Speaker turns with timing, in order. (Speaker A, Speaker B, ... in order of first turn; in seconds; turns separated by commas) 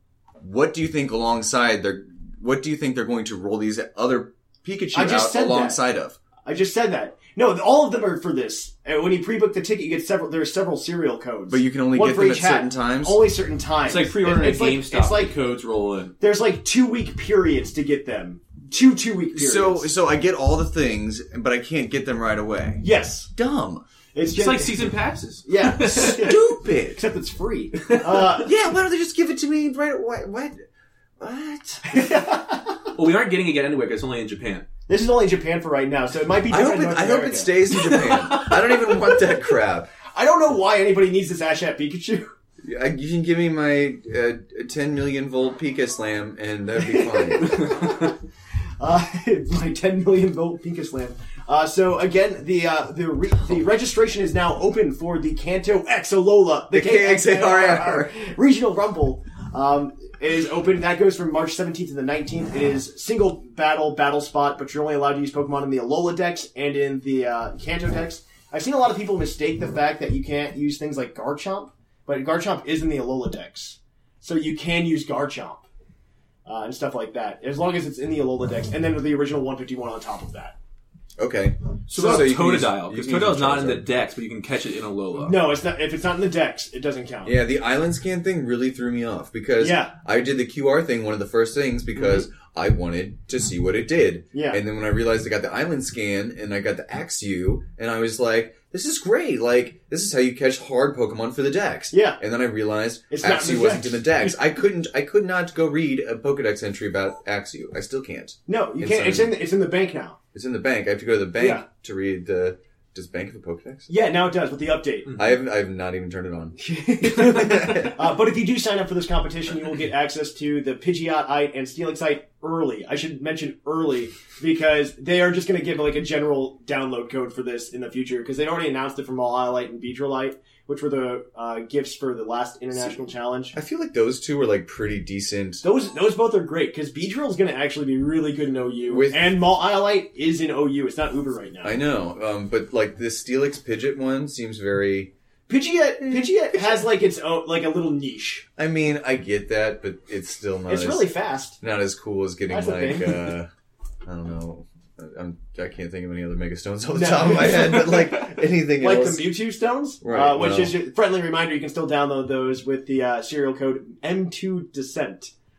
Speaker A: 0.4-6.2, Speaker B: 4.9-5.8, Speaker B: 6.4-15.3, Speaker A: 11.5-13.3, Speaker C: 13.8-16.1, Speaker B: 16.2-19.9, Speaker A: 19.3-23.8, Speaker B: 22.8-23.3, Speaker B: 24.1-28.5, Speaker C: 24.3-26.2, Speaker A: 25.8-27.0, Speaker A: 28.1-30.6, Speaker A: 31.2-32.1, Speaker B: 31.9-32.7, Speaker C: 32.9-34.6, Speaker B: 34.9-37.5, Speaker A: 36.5-39.9, Speaker C: 37.7-39.0, Speaker B: 40.1-42.3, Speaker A: 42.6-47.6, Speaker B: 47.0-48.1, Speaker B: 48.8-75.6, Speaker A: 56.7-58.1, Speaker B: 76.5-80.5, Speaker A: 81.2-83.8, Speaker C: 81.9-85.4, Speaker B: 81.9-82.3, Speaker B: 85.2-87.4, Speaker A: 87.2-109.4, Speaker B: 89.6-89.9, Speaker B: 94.3-94.6, Speaker B: 101.9-102.2, Speaker B: 103.1-104.4, Speaker B: 108.5-110.2, Speaker A: 110.3-113.9, Speaker B: 111.4-111.6, Speaker B: 113.9-115.2, Speaker A: 115.2-118.0, Speaker B: 116.6-133.5, Speaker A: 133.5-135.6, Speaker B: 135.6-141.8, Speaker A: 138.9-139.4, Speaker A: 141.6-145.1, Speaker B: 145.5-148.4, Speaker A: 148.6-153.5, Speaker B: 150.7-151.6, Speaker B: 152.5-153.3, Speaker A: 154.0-159.4, Speaker B: 156.9-165.3, Speaker A: 160.0-160.8